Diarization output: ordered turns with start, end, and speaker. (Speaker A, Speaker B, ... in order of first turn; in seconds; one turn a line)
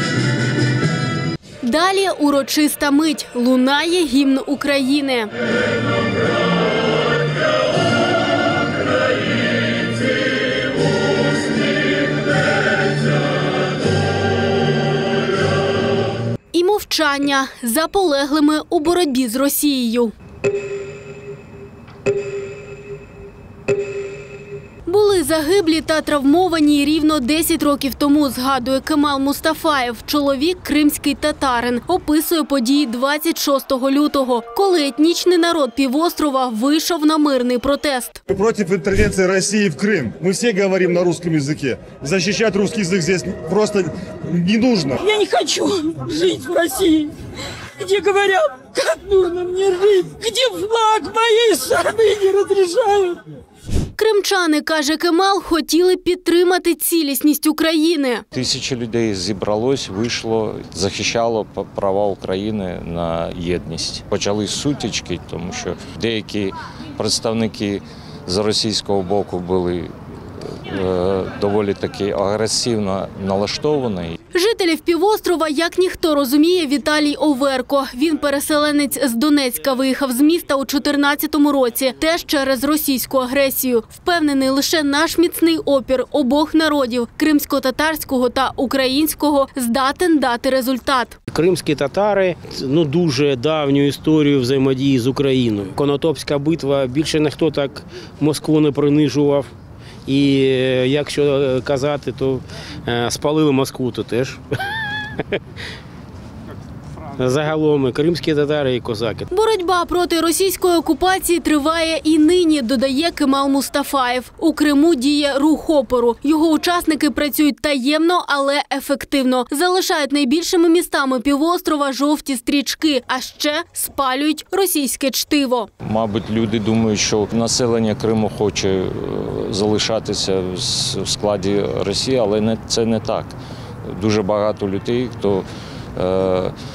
Speaker A: 1.6-5.3
Speaker A: 16.5-20.1
Speaker A: 24.9-38.2
Speaker B: 38.3-45.0
Speaker C: 45.0-47.1
Speaker C: 47.8-53.2
Speaker A: 54.0-58.2
Speaker D: 58.3-69.9
Speaker D: 70.5-74.2
Speaker A: 74.3-91.2
Speaker E: 91.3-99.5
Speaker E: 100.1-104.4
Speaker E: 107.1-109.3
Speaker A: 109.3-125.7
Speaker D: 125.8-136.5